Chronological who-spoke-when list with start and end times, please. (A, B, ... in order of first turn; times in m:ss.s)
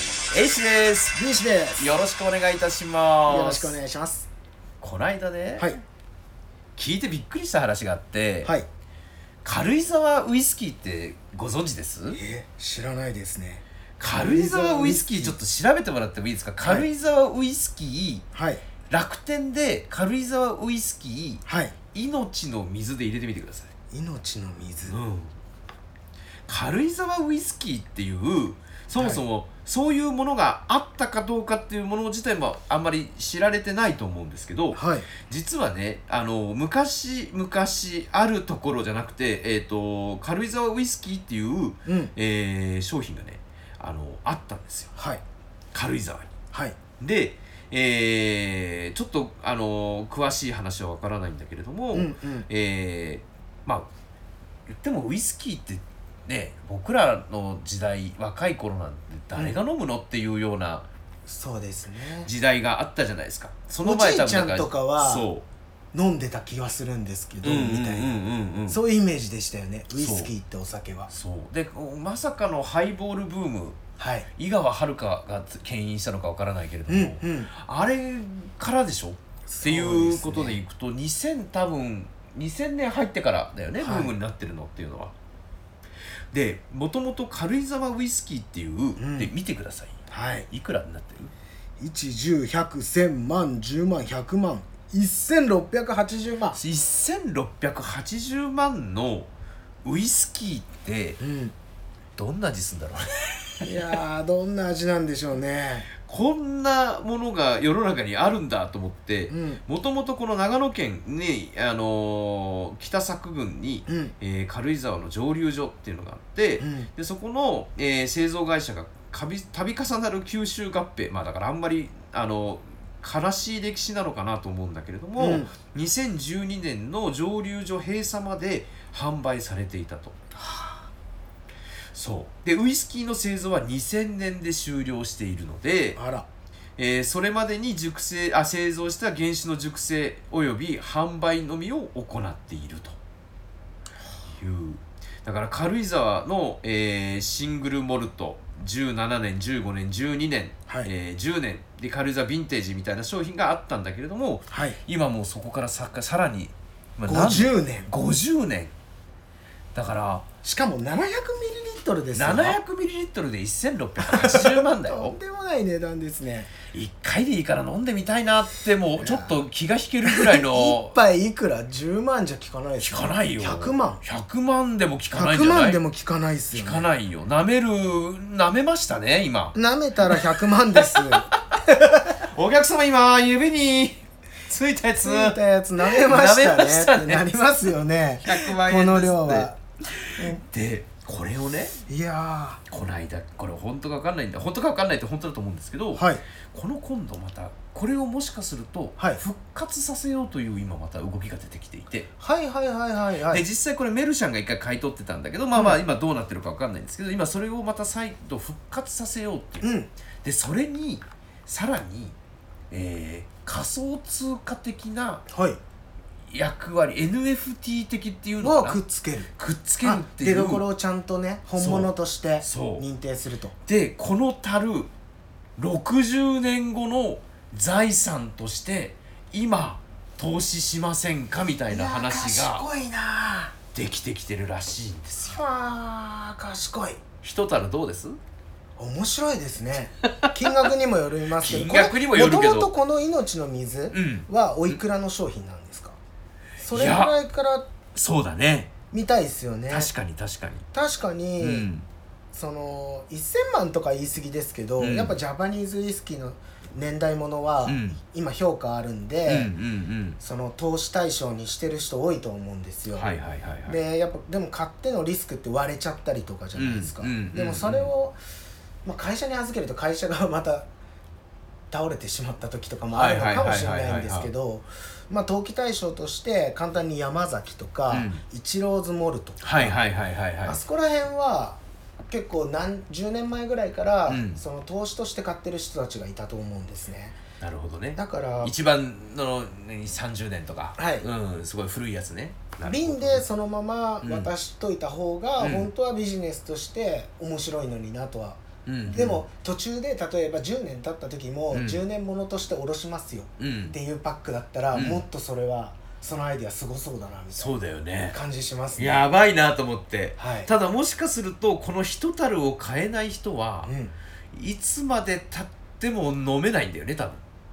0:00.3-0:01.2 A
0:01.2-0:01.8 B
0:01.8-0:03.8 A
0:03.2-0:04.3 B
0:04.8-0:05.8 A
0:06.8-0:08.5 A
0:09.4-0:12.2 A
0:12.1-0:15.4 B
0:14.0-0:18.2 A
0:16.6-0:16.9 B
0:18.3-0:18.6 B
0:18.9-0:23.7 A
0:21.5-0:21.8 B
0:23.9-0:25.0 B
0:24.9-0:25.3 A
0:26.5-0:44.9 A
0:29.0-0:29.2 B
0:34.7-0:35.1 B
0:41.8-0:42.1 B
0:45.0-0:45.2 B
0:45.7-0:46.3 A
0:46.5-0:46.8 B
0:47.0-0:53.9 A
0:51.9-0:52.5 B
0:54.7-1:00.8 A
1:01.3-1:02.3 B
1:02.2-1:05.4 A
1:03.8-1:05.3 B
1:05.9-1:08.2 B
1:07.4-1:08.8 A
1:08.7-1:11.1 B
1:10.0-1:10.3 A
1:11.1-1:25.1 A
1:14.0-1:14.3 B
1:16.9-1:17.5 B
1:19.5-1:20.6 B
1:23.8-1:24.2 B
1:26.3-1:30.0 A
1:29.0-1:29.3 B
1:30.1-1:30.5 B
1:30.5-1:31.3 A
1:31.8-1:36.6 B
1:36.5-1:39.3 A
1:39.8-1:41.2 A
1:41.2-1:41.5 B
1:42.2-1:43.1 A
1:43.6-1:45.9 B
1:45.9-2:10.1 A
1:49.3-1:49.6 B
1:53.9-1:54.1 B
1:56.6-1:56.9 B
2:05.2-2:05.5 B
2:10.4-2:10.9 B
2:11.9-2:16.0 A
2:16.0-2:16.3 B
2:16.8-2:23.0 A
2:24.3-2:38.7 A
2:34.5-2:34.8 B
2:37.1-2:37.9 B
2:39.7-2:40.3 A
2:40.4-2:42.6 B
2:42.2-2:45.2 A
2:44.0-2:46.5 B
2:46.7-2:51.0 A
2:49.0-2:49.4 B
2:50.0-2:54.0 B
2:52.8-2:55.8 A
2:55.1-2:56.9 B
2:56.5-3:01.4 A
2:59.6-3:02.1 B
3:02.2-3:07.4 A
3:05.0-3:09.6 B
3:08.2-3:11.8 A
3:11.9-3:12.6 B
3:12.7-3:22.1 A
3:15.9-3:16.2 B
3:22.2-3:23.4 B
3:23.3-3:29.7 A
3:25.5-3:25.8 B
3:29.6-3:29.9 B
3:30.2-3:32.2 A
3:32.7-3:35.2 A
3:35.3-3:35.6 B
3:36.3-3:38.8 A
3:38.4-3:39.3 B
3:39.4-3:40.6 A
3:39.8-3:43.5 B
3:41.6-3:42.9 A
3:43.7-3:44.9 A
3:45.6-3:52.7 A
3:51.7-3:53.5 B
3:53.7-3:55.4 A
3:55.2-3:57.0 B
3:57.2-3:58.2 A
3:58.8-4:06.0 B
4:01.4-4:02.7 A
4:03.9-4:04.8 A
4:06.6-4:07.7 B
4:06.7-4:07.2 A
4:07.9-4:08.7 A
4:08.9-4:09.9 B
4:09.7-4:10.7 A
4:10.7-4:11.7 B
4:11.4-4:11.9 A
4:12.3-4:19.5 B
4:14.8-4:15.1 A
4:17.6-4:18.0 A
4:19.2-4:20.2 A
4:20.2-4:23.1 B
4:22.9-4:23.8 A
4:23.7-4:28.2 B
4:26.6-4:27.9 A
4:28.8-4:30.7 B
4:31.7-4:39.8 B
4:32.9-4:34.3 A
4:37.9-4:38.2 A
4:39.4-4:40.6 A
4:40.4-4:47.2 B
4:44.1-4:44.4 A
4:47.4-4:53.2 A
4:48.0-4:48.6 B
4:50.8-4:51.1 B
4:52.6-5:07.6 B
4:54.0-4:54.3 A
4:55.4-4:55.7 A
4:58.6-4:59.2 A
5:01.5-5:01.8 A
5:03.4-5:03.8 A
5:04.7-5:05.0 A
5:07.4-5:08.2 A
5:08.1-5:09.1 B
5:08.8-5:13.7 A
5:10.2-5:10.5 B
5:13.6-5:13.9 B
5:14.3-5:17.2 A